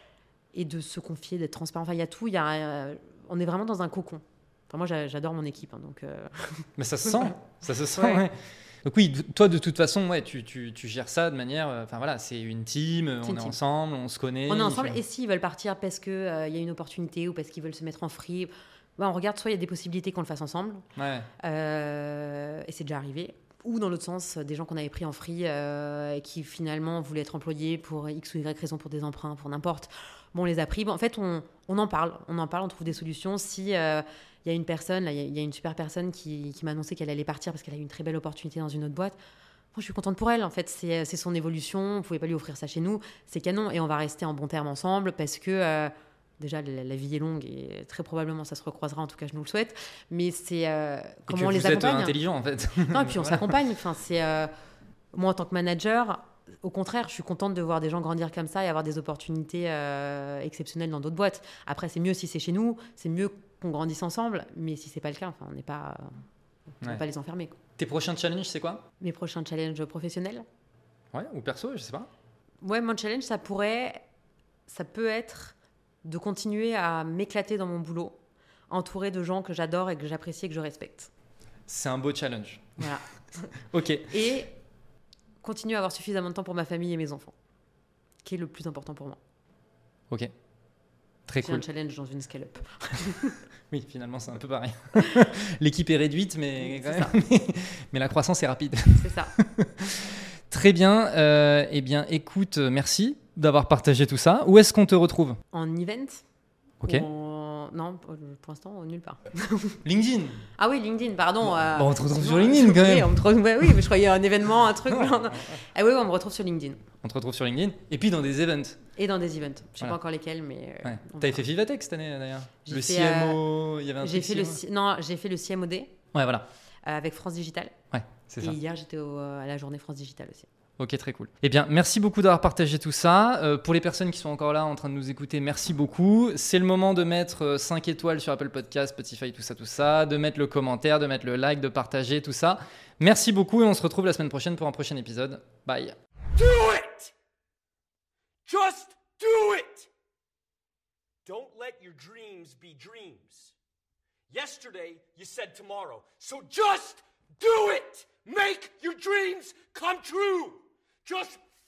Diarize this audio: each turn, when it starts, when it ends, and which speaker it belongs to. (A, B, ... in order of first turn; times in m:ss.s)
0:00.5-0:07.4 A
0:06.8-0:15.0 B
0:08.0-0:08.2 A
0:13.2-0:13.5 A
0:14.5-0:20.8 A
0:21.0-0:21.3 B
0:21.4-0:39.2 A
0:39.7-0:52.2 A
0:51.3-0:53.4 B
0:52.9-0:54.5 A
0:55.1-1:06.2 A
1:06.7-1:07.6 A
1:07.8-1:08.8 B
1:09.0-1:10.4 A
1:11.1-1:12.1 B
1:12.6-1:14.0 A
1:14.7-1:18.2 A
1:18.7-1:21.1 A
1:21.7-1:22.9 B
1:22.8-1:23.5 A
1:23.6-1:24.1 B
1:24.1-1:24.5 A
1:25.4-1:27.3 A
1:28.2-1:29.2 A
1:31.3-1:31.6 B
1:31.4-1:33.4 A
1:33.7-1:45.4 B
1:35.0-1:35.2 A
1:36.6-1:37.1 A
1:39.0-1:39.3 A
1:45.5-1:46.2 A
1:46.8-1:47.0 B
1:46.8-1:49.8 A
1:49.8-1:50.4 B
1:50.6-1:56.8 A
1:51.7-1:53.1 B
1:57.0-1:58.8 B
1:59.0-2:01.4 A
2:00.8-2:04.6 B
2:02.6-2:03.4 A
2:04.0-2:05.9 A
2:06.1-2:06.4 B
2:06.8-2:07.7 A
2:07.9-2:08.6 B
2:08.4-2:10.5 A
2:10.8-2:26.0 B
2:26.3-2:27.1 C
2:28.4-2:29.9 C
2:31.2-2:33.5 C
2:34.3-2:41.4 C